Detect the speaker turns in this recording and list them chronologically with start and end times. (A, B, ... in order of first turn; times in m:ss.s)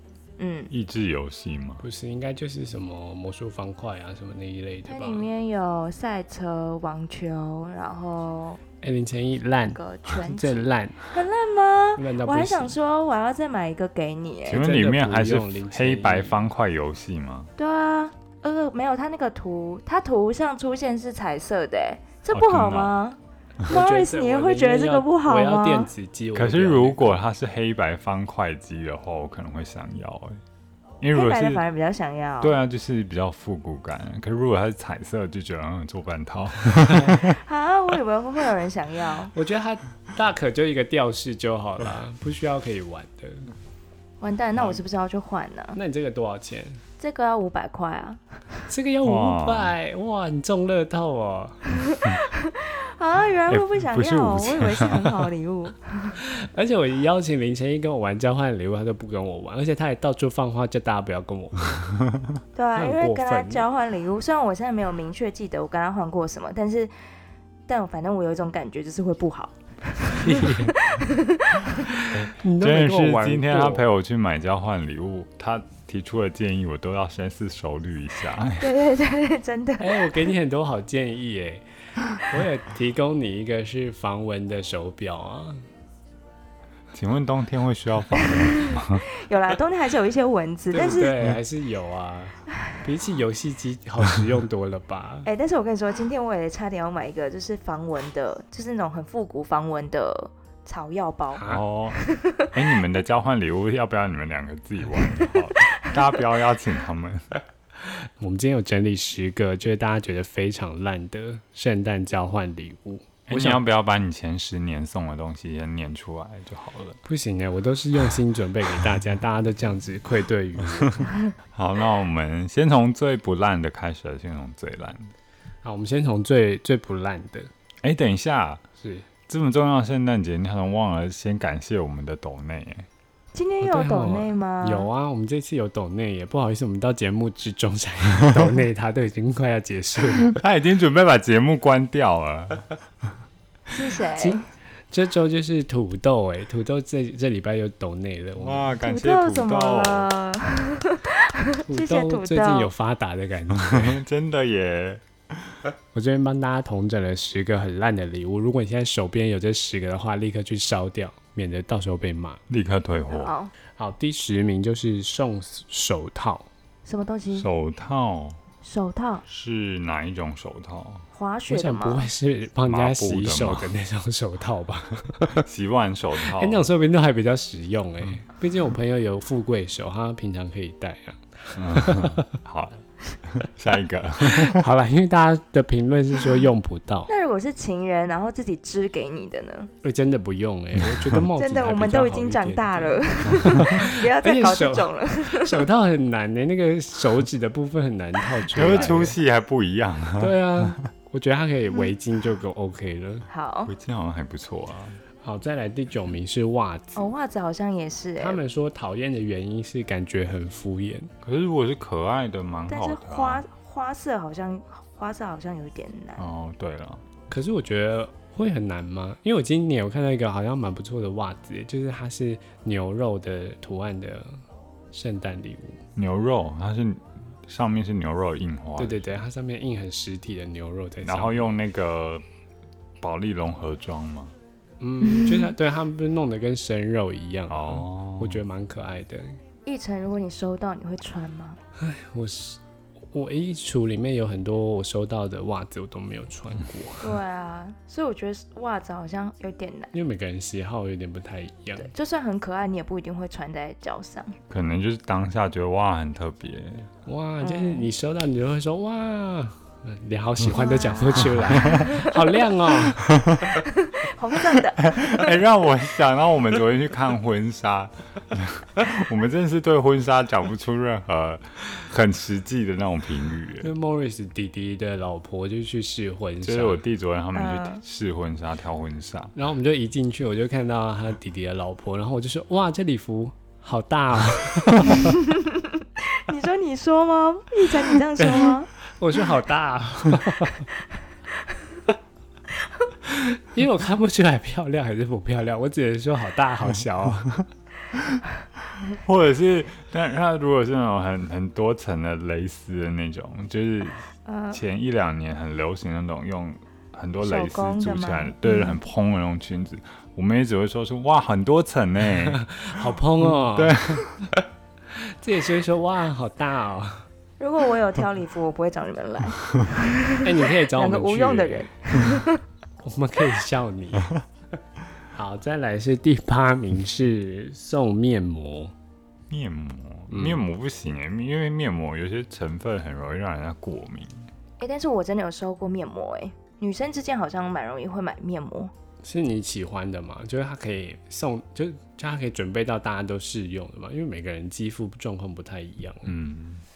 0:00.4-0:00.7 A
0:00.7-0:01.8 B
0:01.8-0:05.2 C
0:04.8-0:08.6 A
0:08.8-0:11.0 C
0:09.7-0:14.6 A
0:12.0-0:12.7 C
0:14.4-0:17.5 B
0:14.5-0:16.4 C
0:17.6-0:25.9 A
0:22.3-0:22.9 B
0:23.6-0:27.2 C
0:26.3-0:30.4 B
0:31.0-0:31.6 B
0:31.1-0:32.6 A
0:32.4-0:37.4 B
0:37.1-0:39.3 A
0:39.3-0:43.5 C
0:44.2-0:45.8 A
0:45.7-0:46.8 C
0:47.0-0:48.2 A
0:48.7-0:51.7 C
0:49.0-0:49.7 B
0:51.7-0:56.2 A
0:53.5-0:55.3 B
0:56.2-1:01.8 C
1:02.5-1:06.9 A
1:02.8-1:03.6 C
1:07.7-1:11.9 A
1:10.2-1:10.8 C
1:12.0-1:13.9 C
1:12.6-1:18.7 B
1:18.6-1:20.1 A
1:19.8-1:25.6 C
1:26.9-1:29.0 B
1:28.2-1:31.2 A
1:30.7-1:35.3 C
1:35.2-1:42.5 A
1:41.4-1:41.6 C
1:41.4-1:47.2 B
1:45.6-1:46.0 A
1:47.8-1:53.6 C
1:53.3-1:57.0 B
1:57.0-2:01.1 C
2:01.5-2:05.1 B
2:05.6-2:07.5 C
2:07.8-2:08.6 B
2:08.8-2:09.1 C
2:09.3-2:12.9 B
2:13.3-2:14.9 A
2:13.6-2:20.4 C
2:20.2-2:22.7 B
2:23.7-2:24.4 A
2:24.2-2:28.7 C
2:28.4-2:30.1 B
2:28.8-2:32.7 A
2:31.6-2:34.0 C
2:33.5-2:35.6 B
2:35.9-2:42.4 C
2:42.5-2:43.3 B
2:43.1-2:43.5 A
2:43.8-2:46.5 C
2:46.8-2:47.5 A
2:47.3-2:48.4 B
2:48.6-2:49.2 A
2:49.2-2:51.0 B
2:51.1-2:52.1 A
2:51.5-2:55.4 C
2:52.6-2:53.7 B
2:55.4-2:56.6 B
2:56.3-3:02.4 C
3:01.5-3:04.6 B
3:04.2-3:07.1 C
3:07.1-3:09.7 A
3:09.8-3:19.2 C
3:11.4-3:15.7 A
3:18.5-3:20.7 B
3:18.6-3:18.9 A
3:20.2-3:23.2 C
3:23.3-3:23.7 A
3:23.6-3:25.0 B
3:25.2-3:27.1 C
3:27.0-3:28.4 A
3:28.2-3:31.1 C
3:31.2-3:33.4 B
3:32.7-3:36.3 A
3:36.2-3:37.0 B
3:37.3-3:45.8 C
3:45.9-3:49.2 B
3:48.8-3:51.5 C
3:51.0-3:52.2 B
3:53.0-3:54.3 B
3:54.8-3:59.4 C
3:55.0-3:55.5 A
3:57.5-3:58.4 B
3:59.6-4:01.6 A
4:01.8-4:02.6 C
4:03.1-4:07.2 C
4:07.0-4:09.9 A
4:09.9-4:11.9 C
4:11.8-4:14.4 A
4:14.5-4:16.9 B
4:17.0-4:23.2 C
4:17.4-4:17.9 A
4:20.5-4:22.2 A
4:23.1-4:23.6 B
4:23.5-4:25.4 A
4:24.5-4:33.7 B
4:33.6-4:36.8 C
4:36.4-4:39.3 B
4:37.3-4:37.8 A
4:39.3-4:45.2 C
4:45.2-4:48.7 A
4:48.2-4:50.7 C
4:53.0-4:57.3 C
4:58.9-5:12.6 B
5:04.2-5:04.6 A
5:07.2-5:08.8 A
5:12.3-5:14.4 C
5:13.2-5:14.2 B
5:14.9-5:17.1 C
5:17.4-5:22.4 A
5:20.2-5:21.7 C
5:22.8-5:24.2 C
5:25.1-5:28.7 C
5:29.3-5:34.3 B
5:30.1-5:30.4 C
5:34.6-5:38.7 A
5:39.0-5:46.1 C
5:46.0-5:46.6 B